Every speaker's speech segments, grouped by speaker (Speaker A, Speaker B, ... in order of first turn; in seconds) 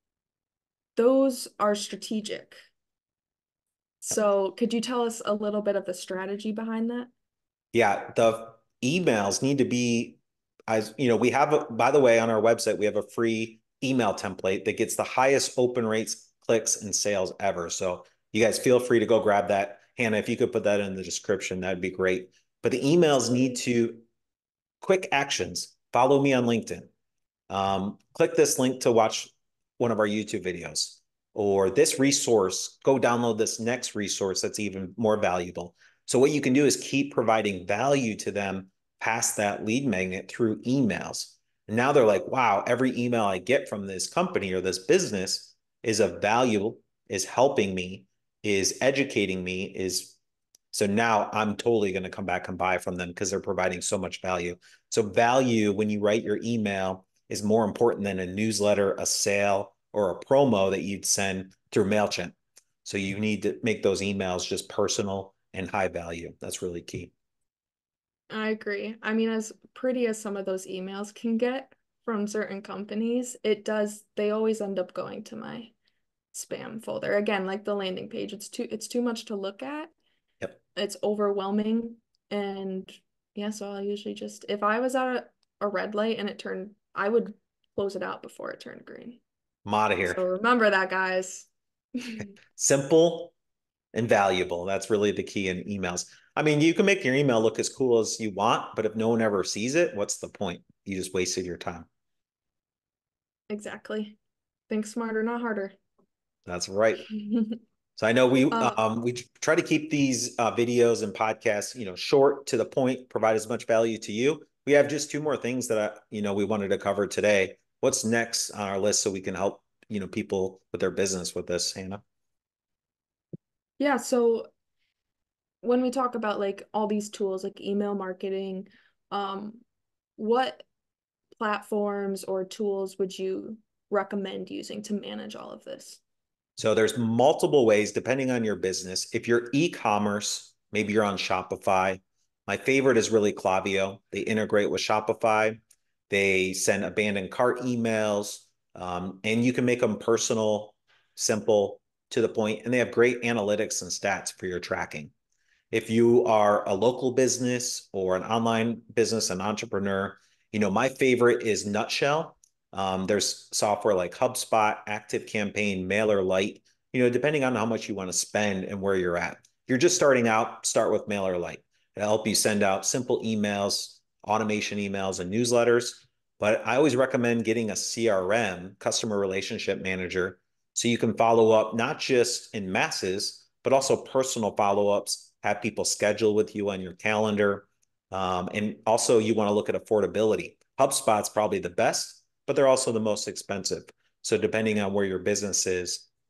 Speaker A: 0.9-2.6, 4.0-7.1, 68.3-75.7, 76.3-79.9, 80.8-89.2, 90.0-92.3, 103.5-105.8, 107.0-107.6, 108.5-108.8, 123.8-124.5, 125.6-129.6, 130.2-130.7, 131.3-136.0
Speaker B: 7.7-24.1, 24.8-26.9, 27.5-50.2, 50.7-67.1, 89.7-90.2, 92.5-93.3, 93.9-101.9, 106.5-107.1, 108.0-122.0, 136.6-155.1, 155.7-196.1